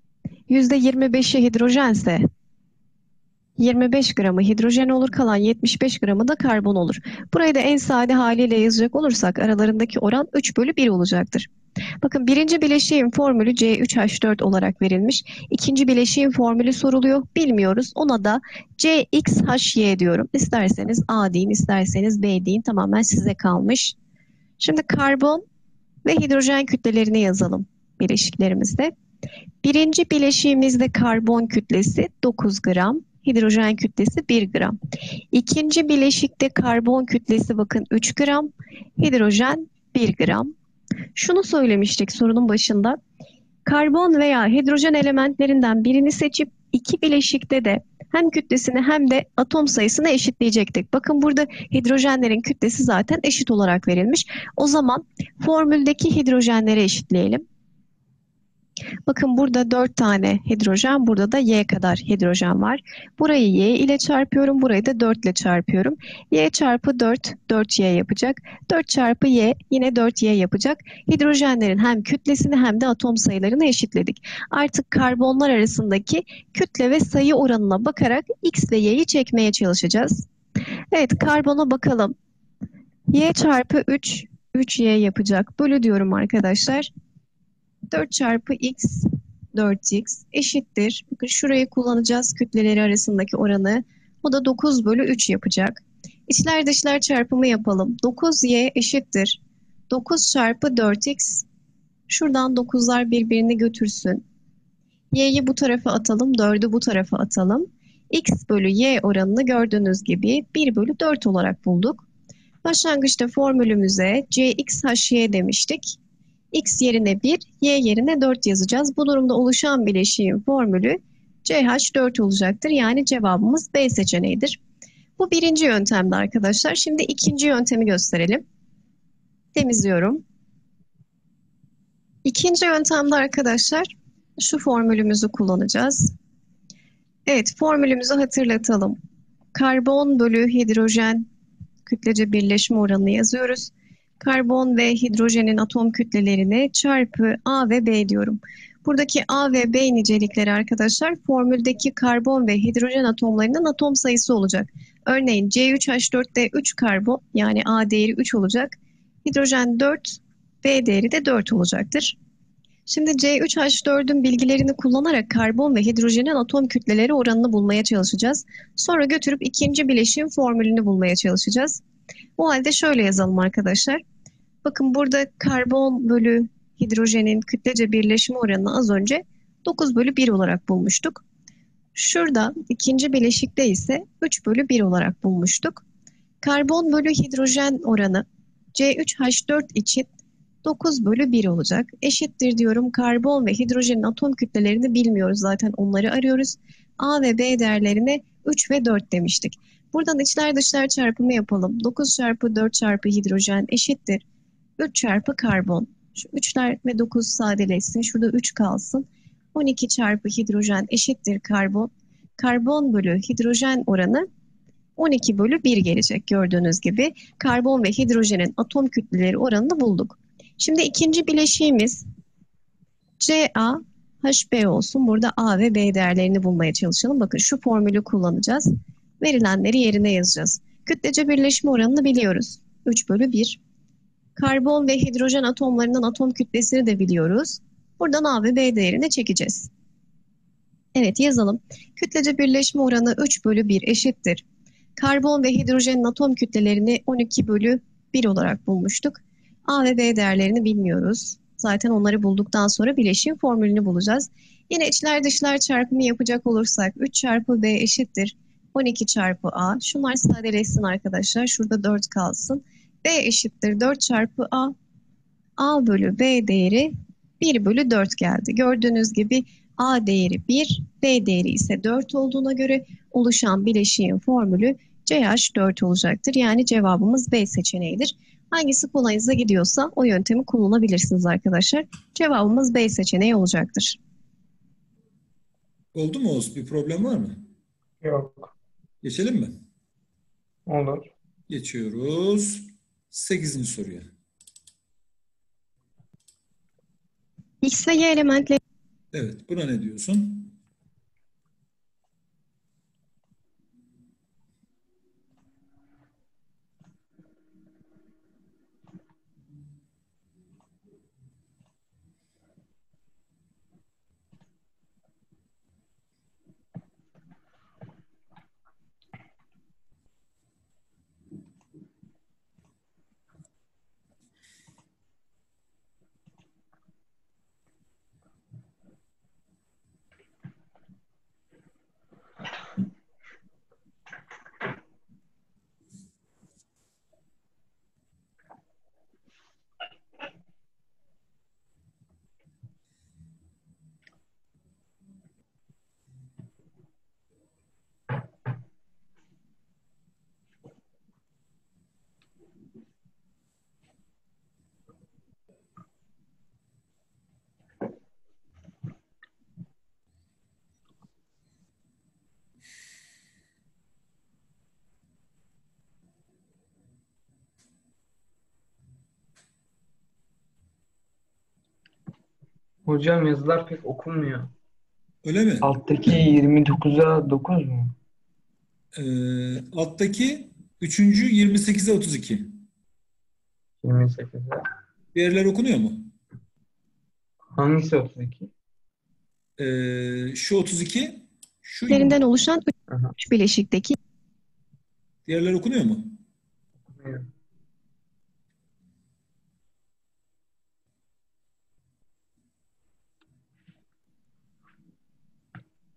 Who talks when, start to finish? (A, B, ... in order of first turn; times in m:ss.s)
0:00.5-0:02.2 A
0:03.6-0:11.5 A
0:12.0-0:24.0 A
0:24.6-0:25.4 A
0:26.0-0:28.9 A
0:29.6-0:34.8 A
0:35.3-0:40.5 A
0:41.1-0:43.0 A
0:43.6-0:57.4 A
0:59.1-1:20.3 A
1:20.9-1:22.1 A
1:23.1-1:26.9 A
1:27.9-1:41.4 A
1:42.1-1:44.2 A
1:45.1-1:52.1 A
1:52.6-1:56.0 A
1:56.5-2:04.6 A
2:05.2-2:08.4 A
2:09.5-2:10.2 A
2:12.2-2:16.1 A
2:17.3-2:19.0 A
2:19.5-2:21.2 A
2:21.8-2:42.2 A
2:42.9-2:51.8 A
2:52.4-2:54.0 A
2:54.6-3:01.2 A
3:01.9-3:05.8 A
3:06.4-3:10.1 A
3:10.6-3:24.2 A
3:24.8-3:34.3 A
3:35.0-3:42.0 A
3:43.2-3:53.6 A
3:54.4-3:59.7 A
4:00.9-4:04.4 A
4:05.0-4:24.7 A
4:25.6-4:44.0 A
4:45.9-4:47.4 B
4:48.0-4:48.5 C
4:49.0-4:49.6 B
4:50.6-4:51.1 C
4:51.5-4:54.1 B
4:57.6-4:58.6 A
4:59.1-5:00.6 B
6:12.8-6:14.5 C
6:15.2-6:15.7 B
6:15.6-6:17.9 C
6:18.9-6:22.6 B
6:23.8-6:24.6 C
6:25.1-6:26.1 B
6:27.5-6:28.5 C
6:29.6-6:32.2 B
6:31.9-6:34.0 A
6:32.9-6:33.1 C
6:35.2-6:36.2 B
6:36.9-6:37.3 C